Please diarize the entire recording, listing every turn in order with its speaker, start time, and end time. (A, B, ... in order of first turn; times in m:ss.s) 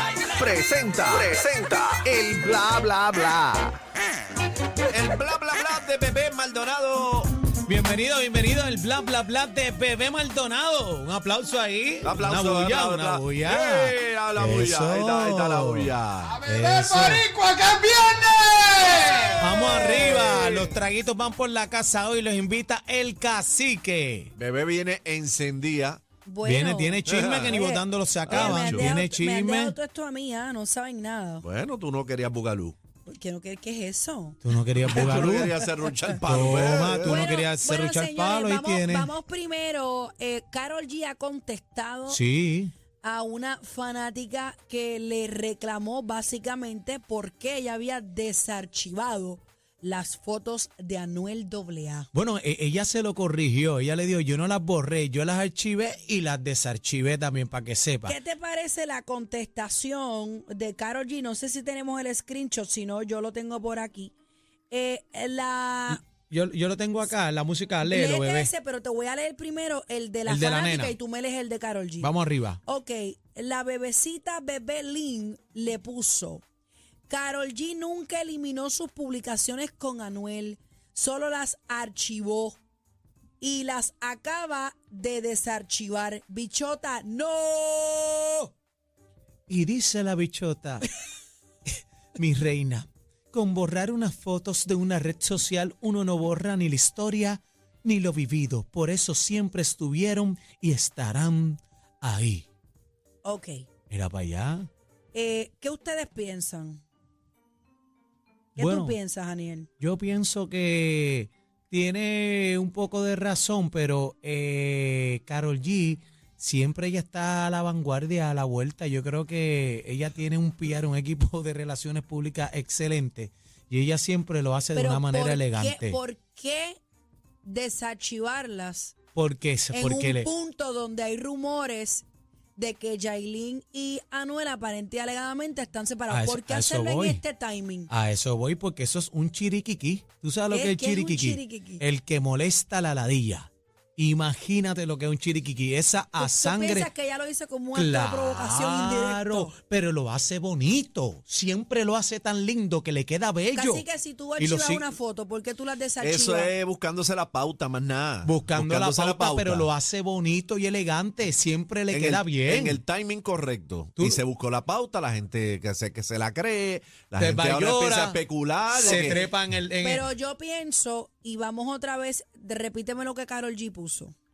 0:00.4-0:01.9 A
0:00.4-0:03.6 B
0:04.9-0:07.3 C
0:07.6-0:17.3 D
0:12.0-0:16.4 C
0:17.4-0:18.6 A
0:19.0-0:20.7 C
0:19.4-0:24.3 D
0:24.4-0:26.0 C
0:26.2-0:31.4 E
0:26.4-0:29.8 D
0:27.0-0:27.6 C
0:28.2-0:28.9 C
0:31.4-0:32.8 C
0:33.0-0:34.4 E
0:34.4-0:35.6 D
0:34.8-0:37.3 C
0:35.0-0:36.2 E
0:36.2-0:39.1 D
0:37.0-0:42.2 E
0:42.1-0:42.7 D
0:43.0-0:52.1 E
0:52.1-0:58.2 D
0:58.0-1:04.1 E
1:04.7-1:06.0 E
1:05.9-1:08.5 D
1:07.8-1:12.1 E
1:10.2-1:11.0 D
1:12.0-1:12.6 D
1:12.6-1:16.4 E
1:17.1-1:22.6 E
1:23.4-1:28.5 E
1:29.5-1:30.9 D
1:32.1-1:42.5 D
1:43.2-1:43.6 E
1:43.9-1:44.7 D
1:45.1-1:46.8 E
1:48.6-1:49.0 D
1:48.6-1:49.7 E
1:49.8-2:06.0 D
2:04.7-2:06.8 E
2:07.4-2:08.9 E
2:09.1-2:10.3 D
2:09.7-2:12.0 E
2:12.6-2:17.9 E
2:16.1-2:17.2 D
2:17.9-2:26.9 D
2:20.5-2:21.8 E
2:26.2-2:29.5 E
2:27.7-2:33.8 D
2:33.5-2:36.5 E
2:34.4-2:34.9 D
2:36.0-2:39.7 C
2:38.2-2:42.8 D
2:41.9-2:49.2 C
2:47.2-2:48.2 D
2:48.8-2:50.1 D
2:48.8-2:49.2 E
2:49.8-2:54.1 E